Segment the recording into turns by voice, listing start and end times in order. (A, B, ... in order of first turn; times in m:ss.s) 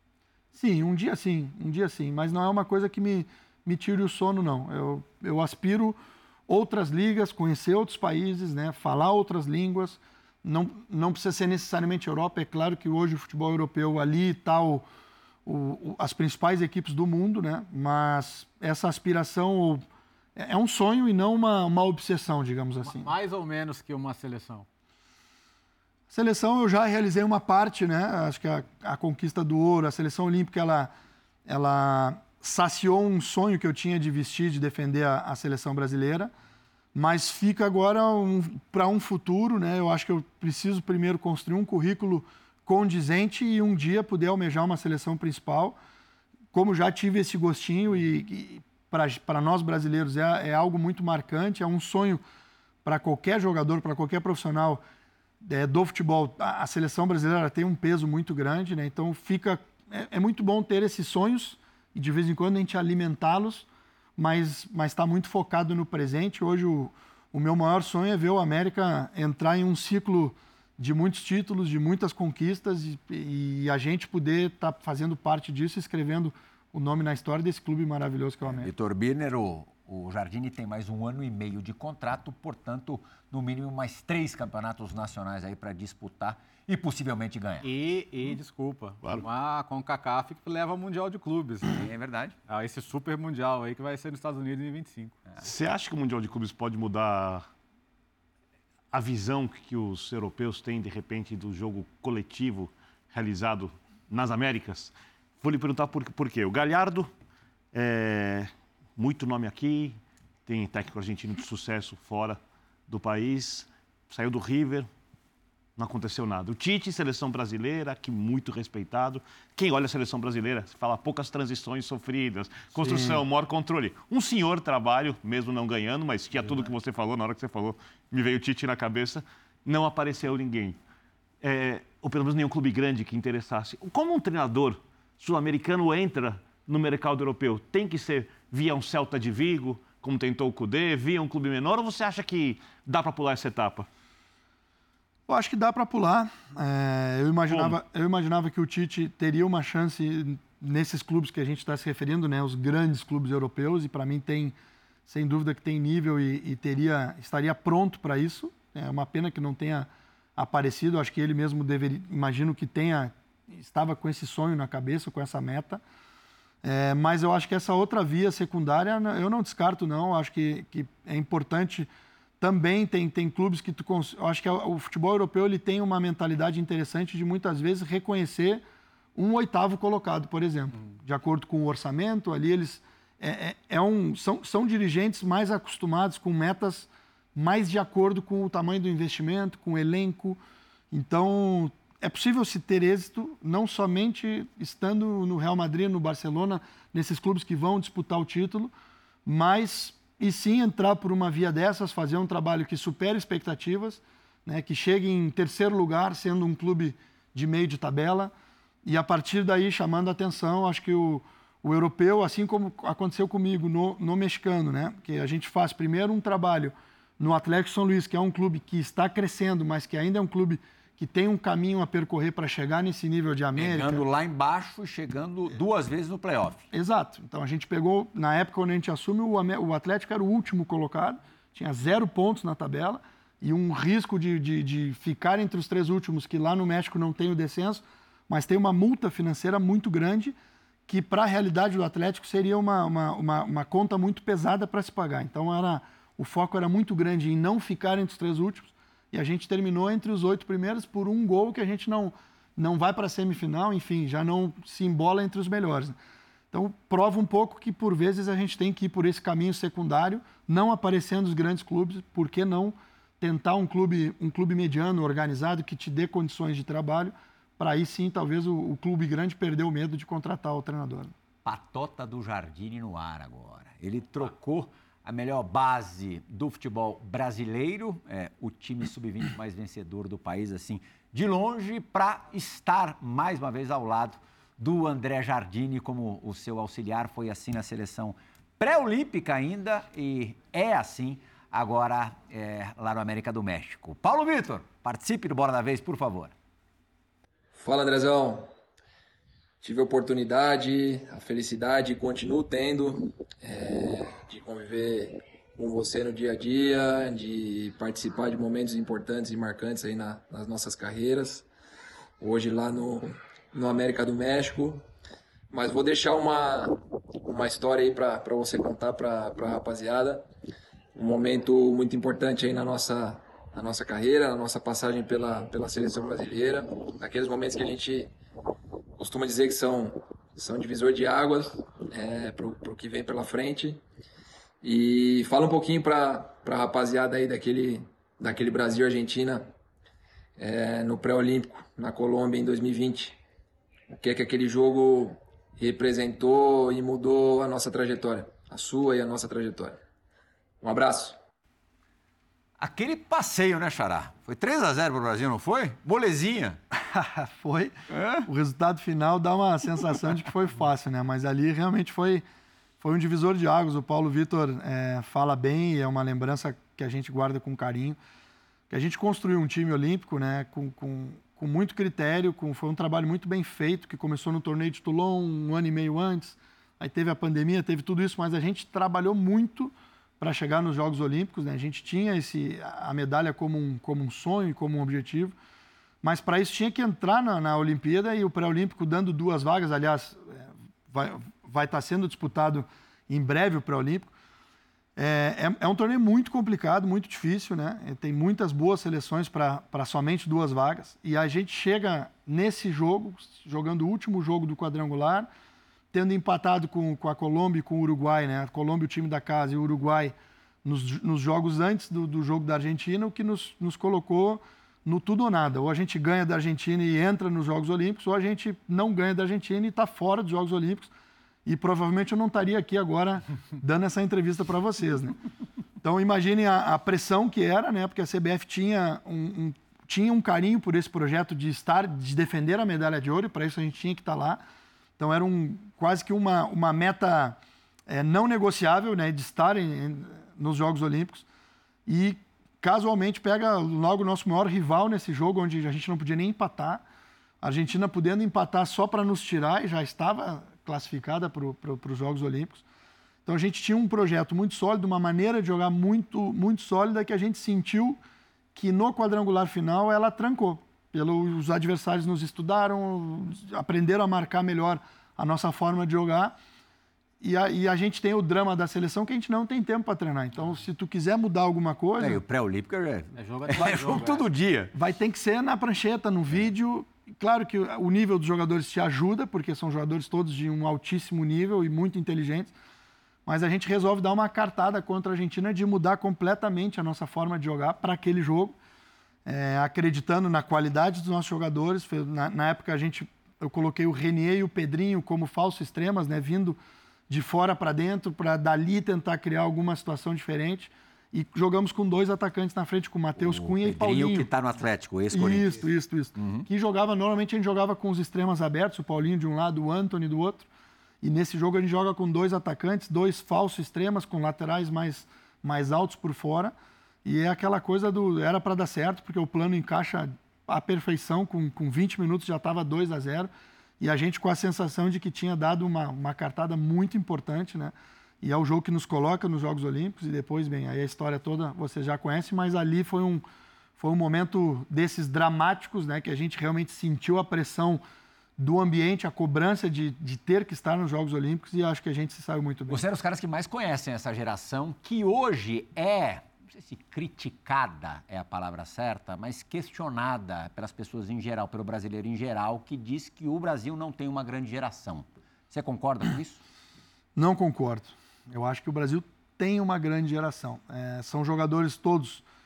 0:00.5-0:14.9 A
0:15.5-0:19.8 A
0:20.4-0:23.1 A
0:22.8-0:24.7 B
0:26.1-0:30.9 A
0:31.5-0:36.3 A
0:37.0-0:45.8 A
0:46.5-0:52.2 A
0:52.8-0:54.8 A
0:55.4-1:18.7 A
1:18.4-1:27.7 C
1:27.6-1:31.8 B
1:31.7-1:32.4 C
1:32.5-1:35.2 B
1:35.4-1:37.5 D
1:38.9-1:47.1 D
1:47.7-1:54.9 D
1:55.8-2:10.8 D
2:02.8-2:03.2 A
2:11.4-2:23.9 D
2:25.3-2:34.6 A
2:27.5-2:27.8 D
2:35.1-2:45.8 A
2:46.6-2:51.9 A
2:52.4-2:58.6 A
2:59.2-3:10.4 A
3:10.9-3:18.7 A
3:19.3-3:28.3 A
3:28.8-3:44.0 A
3:43.5-3:46.7 C
3:46.7-4:00.4 A
4:00.9-4:16.0 A
4:16.5-4:31.1 A
4:31.4-4:56.3 C
4:57.6-4:58.5 E
4:59.6-5:11.5 E
5:12.2-5:14.8 E
5:15.5-5:20.3 E
5:21.0-5:28.1 E
5:29.0-5:33.8 E
5:34.6-5:39.5 E
5:40.4-5:43.2 E
5:43.9-5:49.8 E
5:50.6-5:51.2 E
5:52.6-5:56.6 C
5:56.8-5:57.8 A
5:57.9-5:58.3 C
5:58.3-6:02.2 A
6:02.8-6:08.0 A
6:08.7-6:25.3 A
6:26.0-6:34.1 A
6:35.0-6:45.3 A
6:45.9-7:00.9 A
7:01.4-7:05.2 A
7:05.8-7:14.4 A
7:15.0-7:17.4 A
7:17.9-7:21.2 A
7:21.9-7:26.8 A
7:27.4-7:32.6 A
7:33.3-7:38.0 A
7:38.6-7:46.4 A
7:47.2-7:52.2 A
7:52.0-7:54.7 C
7:53.2-7:54.2 B
7:54.7-8:02.5 A
8:03.3-8:08.5 A
8:09.3-8:16.6 A
8:17.1-8:24.3 A
8:23.2-8:25.6 C
8:25.1-8:30.5 A
8:26.2-8:26.5 C
8:31.0-8:36.5 A
8:37.0-8:53.2 A
8:53.8-8:57.8 A
8:58.4-9:02.8 A
9:02.7-9:16.4 C
9:17.2-9:22.2 A